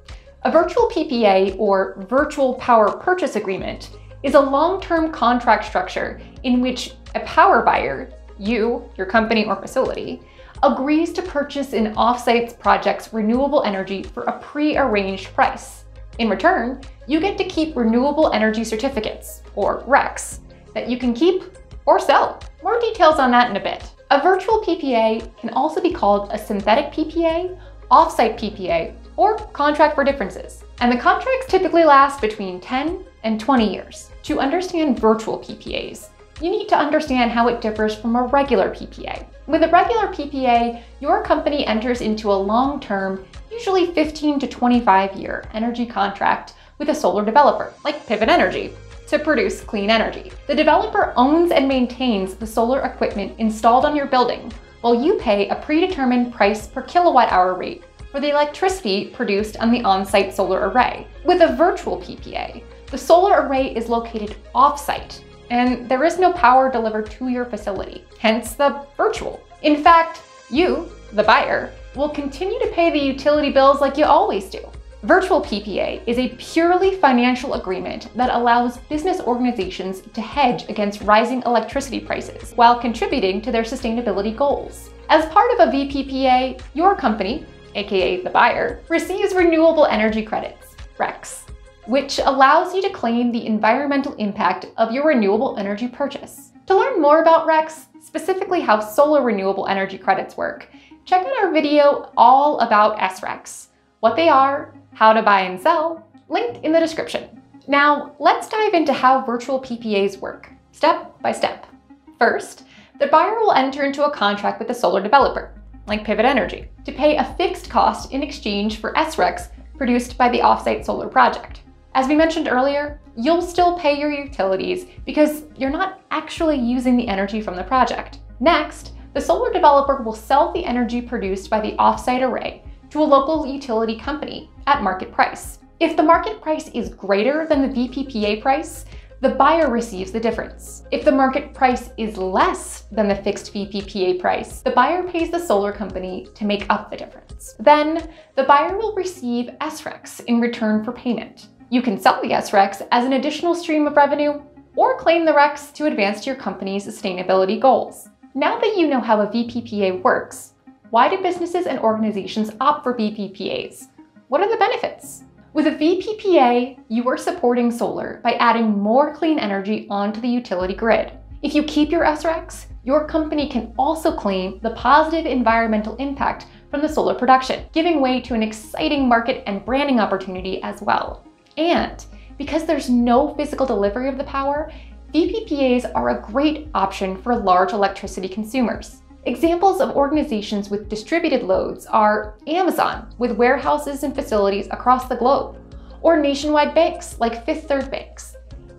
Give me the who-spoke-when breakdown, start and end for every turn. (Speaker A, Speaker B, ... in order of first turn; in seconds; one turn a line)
Speaker A: 0.4-198.3